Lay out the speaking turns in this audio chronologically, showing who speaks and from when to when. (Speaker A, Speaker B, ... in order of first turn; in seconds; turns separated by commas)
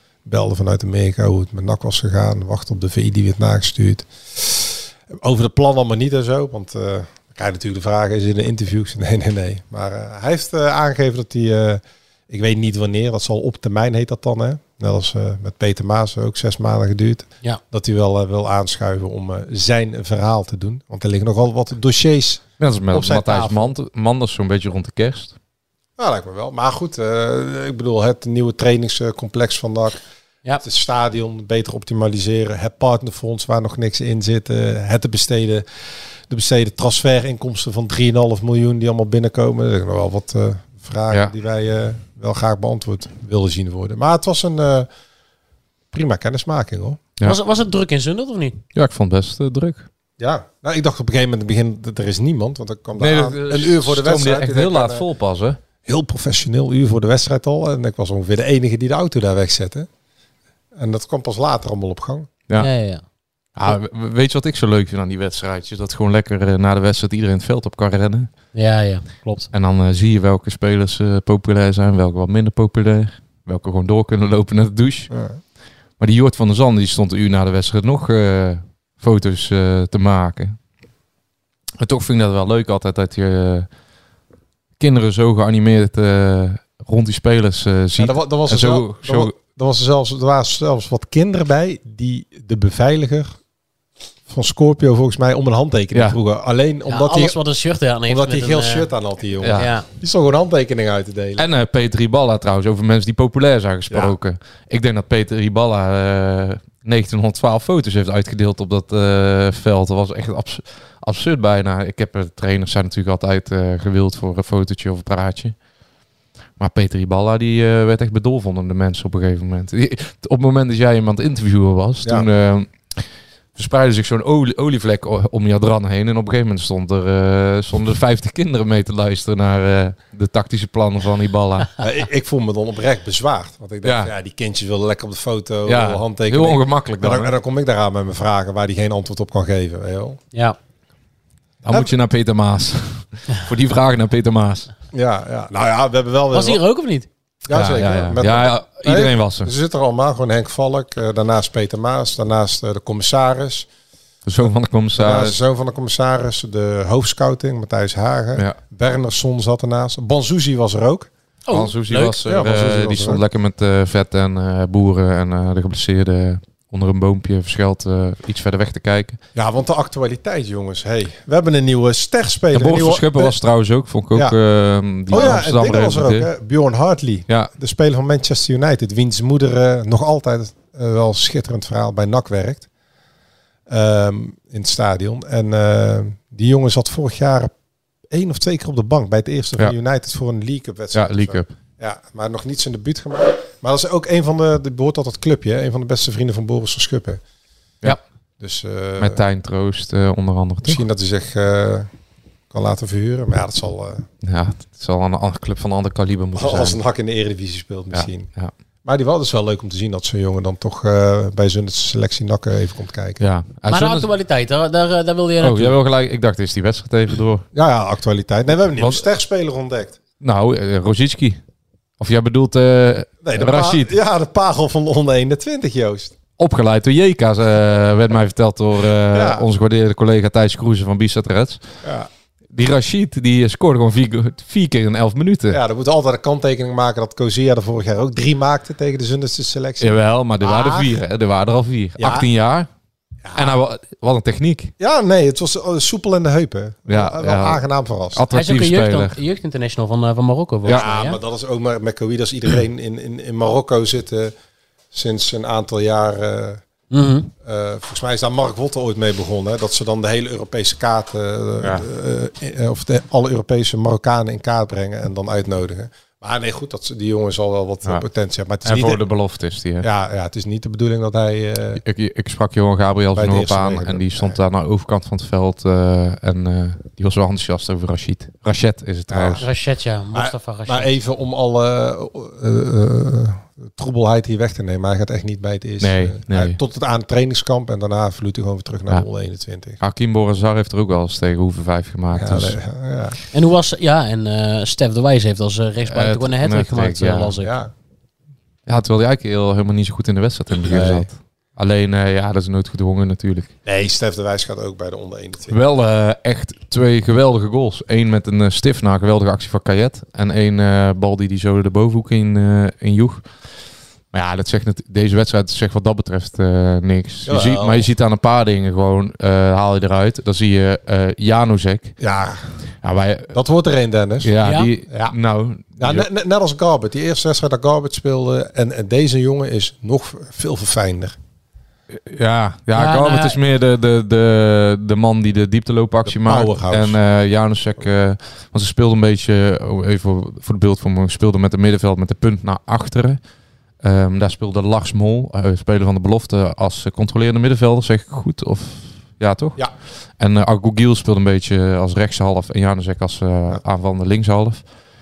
Speaker A: 0.2-23.7, Speaker B: 22.6-25.3, Speaker A: 26.0-30.0, Speaker A: 30.6-35.6, Speaker A: 36.3-44.9, Speaker A: 45.9-47.0, Speaker C: 47.2-48.6, Speaker B: 48.7-49.9, Speaker A: 50.2-55.0, Speaker B: 53.0-55.6, Speaker A: 55.8-59.9, Speaker A: 60.8-62.3, Speaker C: 62.6-63.0, Speaker B: 63.5-68.3, Speaker C: 68.5-69.5, Speaker B: 69.5-75.1, Speaker A: 75.1-75.4, Speaker B: 76.0-80.6, Speaker B: 81.8-83.7, Speaker B: 84.8-89.3, Speaker A: 88.0-93.3, Speaker A: 94.3-97.4, Speaker B: 95.9-96.2, Speaker C: 96.9-98.9, Speaker A: 98.1-101.5, Speaker B: 99.4-99.7, Speaker C: 99.5-99.9, Speaker B: 101.4-115.5, Speaker A: 103.9-104.2, Speaker B: 116.6-123.0, Speaker B: 123.5-131.7, Speaker A: 131.8-140.2, Speaker B: 133.8-134.1, Speaker B: 135.7-137.3, Speaker B: 141.6-144.7, Speaker A: 144.9-146.6, Speaker C: 146.3-147.1, Speaker A: 147.5-153.7, Speaker B: 147.5-149.5, Speaker B: 154.2-155.4, Speaker A: 154.9-161.1, Speaker C: 161.5-162.1, Speaker B: 161.5-169.2, Speaker A: 162.2-163.2, Speaker A: 169.3-173.3, Speaker B: 172.5-176.3, Speaker A: 175.1-182.7, Speaker A: 183.7-187.5, Speaker A: 188.1-197.2, Speaker B: 190.9-191.5, Speaker A: 198.4-199.2, Speaker B: 199.0-200.8, Speaker A: 200.6-201.9, Speaker A: 202.5-204.1, Speaker B: 204.2-206.8, Speaker A: 206.3-208.3, Speaker B: 207.9-208.5, Speaker A: 208.8-213.2, Speaker B: 213.2-214.1, Speaker C: 213.7-215.8, Speaker B: 215.4-217.4, Speaker A: 217.5-220.0, Speaker B: 218.8-219.0, Speaker B: 220.2-221.4, Speaker B: 222.0-223.9, Speaker A: 223.2-226.1, Speaker B: 226.4-231.6, Speaker A: 229.1-229.5, Speaker A: 231.8-232.1, Speaker B: 232.5-235.6, Speaker A: 235.5-241.0, Speaker B: 239.8-242.7, Speaker A: 242.0-242.3, Speaker A: 243.2-243.6, Speaker B: 243.3-244.7, Speaker A: 244.8-248.2, Speaker B: 246.9-249.2, Speaker C: 248.3-251.2, Speaker A: 250.7-254.3, Speaker A: 254.9-256.6, Speaker C: 256.9-257.3, Speaker A: 257.4-269.0, Speaker B: 261.6-261.9, Speaker B: 268.6-269.9, Speaker A: 269.8-271.8, Speaker B: 271.8-279.4, Speaker A: 273.1-274.4, Speaker A: 279.1-279.4, Speaker C: 279.4-280.9, Speaker A: 280.1-289.8, Speaker B: 285.8-286.6, Speaker B: 289.8-292.6, Speaker A: 292.1-293.2, Speaker C: 293.3-297.5, Speaker B: 295.9-297.3, Speaker A: 297.4-297.7, Speaker B: 298.7-303.5, Speaker A: 300.7-301.0, Speaker A: 303.6-305.6, Speaker B: 305.5-313.2, Speaker B: 314.1-322.0, Speaker A: 317.2-317.9, Speaker A: 322.0-322.5, Speaker B: 322.8-323.3, Speaker A: 323.3-324.3, Speaker B: 324.2-326.1, Speaker C: 324.4-324.7, Speaker A: 324.9-325.1, Speaker A: 325.8-331.2, Speaker B: 331.9-343.2, Speaker C: 332.7-333.4, Speaker A: 336.1-337.0, Speaker B: 343.8-349.6, Speaker B: 350.2-354.6